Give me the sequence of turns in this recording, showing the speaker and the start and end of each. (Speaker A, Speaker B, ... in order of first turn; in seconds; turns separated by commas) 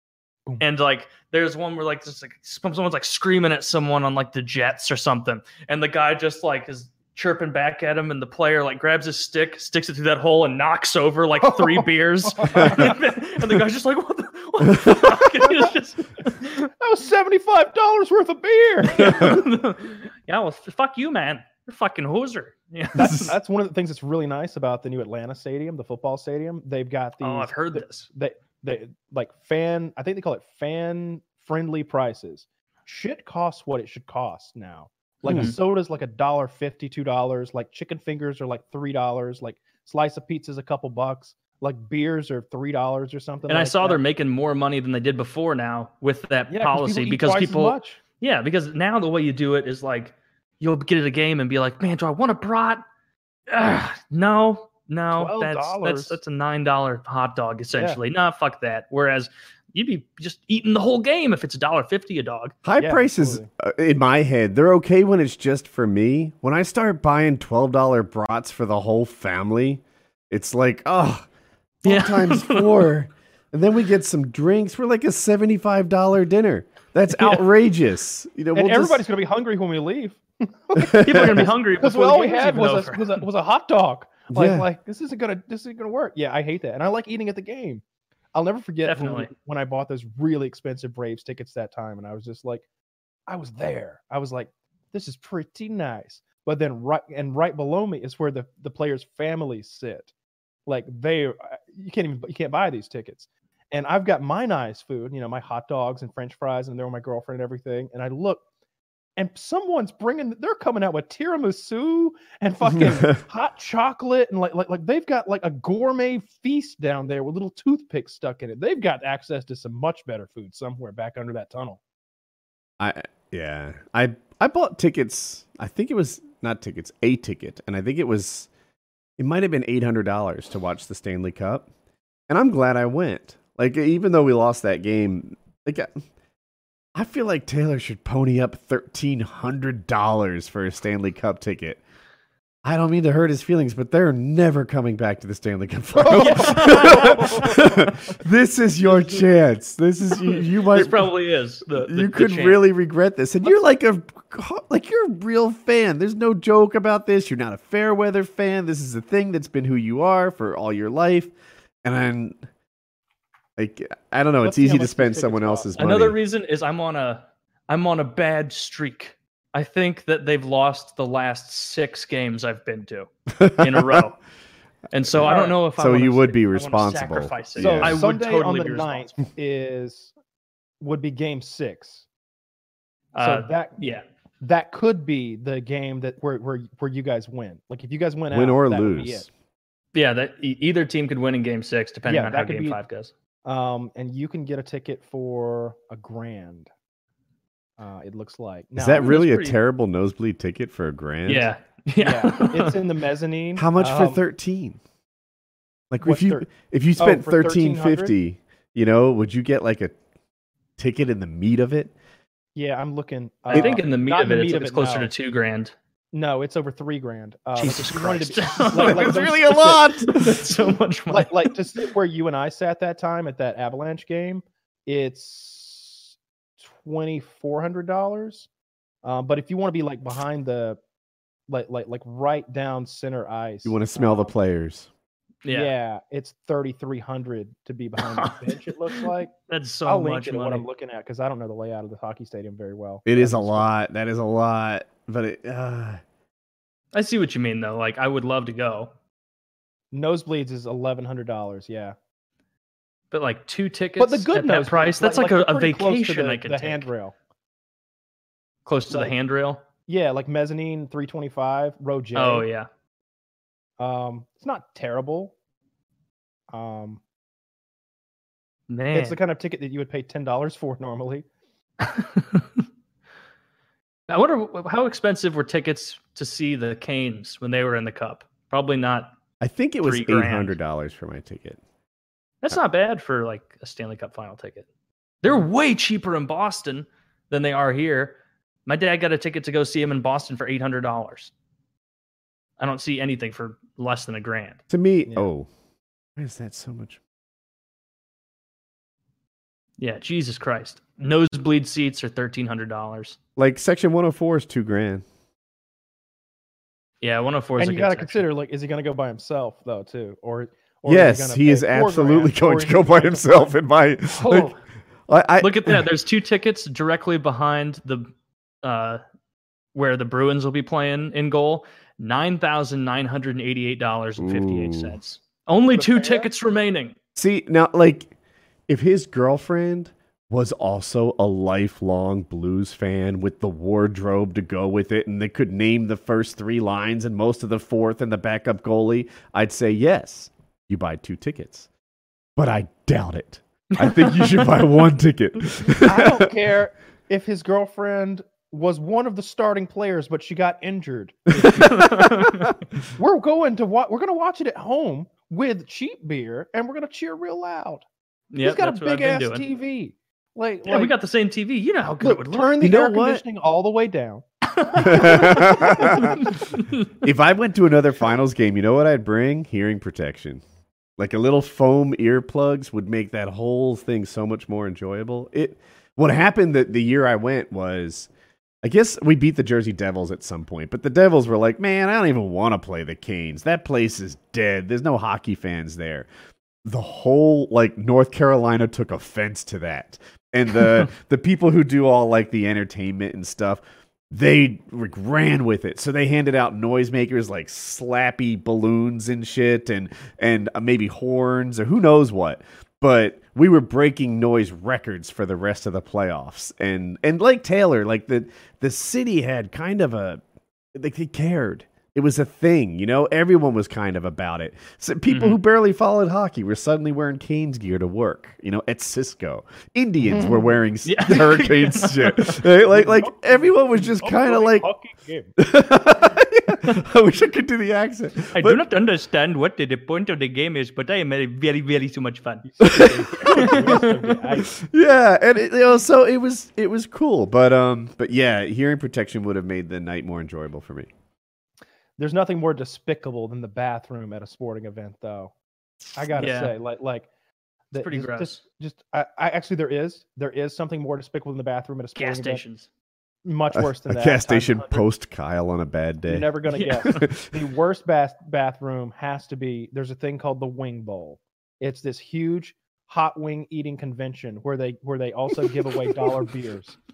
Speaker A: 0.6-16.7, Speaker B: 11.4-13.0, Speaker B: 15.4-15.7, Speaker B: 16.8-19.4, Speaker A: 18.9-23.4, Speaker C: 19.0-19.4, Speaker C: 23.0-23.3, Speaker B: 23.0-44.0, Speaker A: 27.2-27.9, Speaker C: 35.2-35.5, Speaker A: 35.3-35.5, Speaker A: 43.5-52.8, Speaker B: 46.5-48.0, Speaker A: 53.5-62.6, Speaker B: 55.1-56.2, Speaker B: 57.7-58.0, Speaker C: 62.6-71.3, Speaker B: 62.8-63.5, Speaker C: 71.8-79.0, Speaker A: 71.8-72.9, Speaker B: 78.5-87.8, Speaker C: 80.8-81.5, Speaker A: 81.0-83.2, Speaker C: 84.3-84.7, Speaker B: 88.3-92.7, Speaker A: 88.8-89.3, Speaker B: 93.3-100.1, Speaker B: 100.7-108.4, Speaker B: 109.2-121.8, Speaker C: 122.8-128.5, Speaker C: 129.2-131.7, Speaker C: 132.3-136.0, Speaker C: 136.9-141.8, Speaker C: 142.6-151.1, Speaker B: 145.9-147.7, Speaker A: 146.1-147.6, Speaker A: 150.3-152.6, Speaker C: 151.7-161.3, Speaker C: 161.8-162.4, Speaker C: 163.6-166.2, Speaker A: 164.4-174.2, Speaker B: 164.5-165.7, Speaker C: 173.3-174.0, Speaker A: 174.9-179.1, Speaker C: 174.9-178.0, Speaker B: 175.2-175.6, Speaker B: 177.6-180.1, Speaker B: 180.8-182.1, Speaker A: 183.1-184.1, Speaker B: 183.2-183.8, Speaker B: 184.4-189.3, Speaker C: 188.3-189.3, Speaker A: 189.9-193.1, Speaker B: 192.1-192.8, Speaker B: 193.4-196.7, Speaker B: 197.8-199.2, Speaker C: 198.8-201.5, Speaker A: 199.0-199.6, Speaker A: 201.3-202.8, Speaker B: 202.0-204.2, Speaker C: 203.6-204.8, Speaker C: 205.9-209.9, Speaker B: 206.0-208.1, Speaker C: 210.8-211.9, Speaker B: 212.6-215.1, Speaker A: 213.5-215.7, Speaker C: 213.5-213.8, Speaker B: 216.1-219.8, Speaker A: 217.6-221.5, Speaker C: 218.7-220.4, Speaker B: 221.1-228.5, Speaker B: 229.0-230.8, Speaker B: 231.5-234.3, Speaker C: 233.6-234.9, Speaker A: 235.4-235.7, Speaker B: 235.5-239.3, Speaker A: 238.0-240.7, Speaker B: 239.8-243.7, Speaker C: 243.1-246.0, Speaker A: 246.9-248.9, Speaker B: 249.9-251.9, Speaker A: 253.1-256.9, Speaker B: 254.0-257.1, Speaker A: 258.7-259.6, Speaker B: 258.9-259.1, Speaker B: 259.9-262.5, Speaker A: 262.1-262.7, Speaker B: 263.8-265.3, Speaker B: 266.5-267.0, Speaker A: 268.7-269.2, Speaker B: 268.9-271.3, Speaker A: 271.8-272.6, Speaker A: 274.1-279.2, Speaker C: 279.4-281.6, Speaker A: 279.8-280.6, Speaker A: 282.4-284.7, Speaker A: 285.2-291.3, Speaker A: 292.6-294.6, Speaker C: 294.7-295.5, Speaker C: 296.2-297.0, Speaker A: 299.8-303.2, Speaker C: 303.4-305.1, Speaker A: 307.0-308.2, Speaker B: 307.6-313.5, Speaker C: 310.9-314.5, Speaker A: 314.1-314.6, Speaker C: 315.1-315.9, Speaker A: 315.4-318.1, Speaker A: 318.6-319.0, Speaker A: 319.8-326.9, Speaker C: 324.2-325.0, Speaker B: 325.7-326.3, Speaker C: 327.2-328.1, Speaker C: 328.7-341.7, Speaker C: 342.4-346.3, Speaker A: 343.8-344.5, Speaker B: 345.8-351.6, Speaker C: 351.4-352.6, Speaker A: 351.4-352.6, Speaker B: 352.9-357.9, Speaker A: 358.3-359.4, Speaker B: 358.4-360.9, Speaker A: 360.7-362.5, Speaker B: 362.0-366.2, Speaker C: 362.6-363.2, Speaker C: 364.8-366.2, Speaker A: 365.1-366.9, Speaker C: 367.0-370.4, Speaker C: 371.0-378.1, Speaker C: 378.6-386.1, Speaker C: 386.6-410.2, Speaker C: 410.8-424.7, Speaker A: 415.1-415.4, Speaker B: 420.0-420.5, Speaker A: 420.9-422.4, Speaker B: 422.7-425.3, Speaker C: 425.4-428.6, Speaker A: 428.3-432.4, Speaker B: 432.4-434.5, Speaker C: 432.6-433.6, Speaker A: 433.3-434.2, Speaker C: 434.6-440.9, Speaker B: 442.0-445.3, Speaker B: 445.9-447.1, Speaker A: 446.1-446.5, Speaker B: 447.7-452.4, Speaker A: 447.8-448.4, Speaker A: 452.0-452.7, Speaker B: 453.2-454.9, Speaker C: 453.5-457.3, Speaker B: 456.1-466.8, Speaker A: 456.5-457.0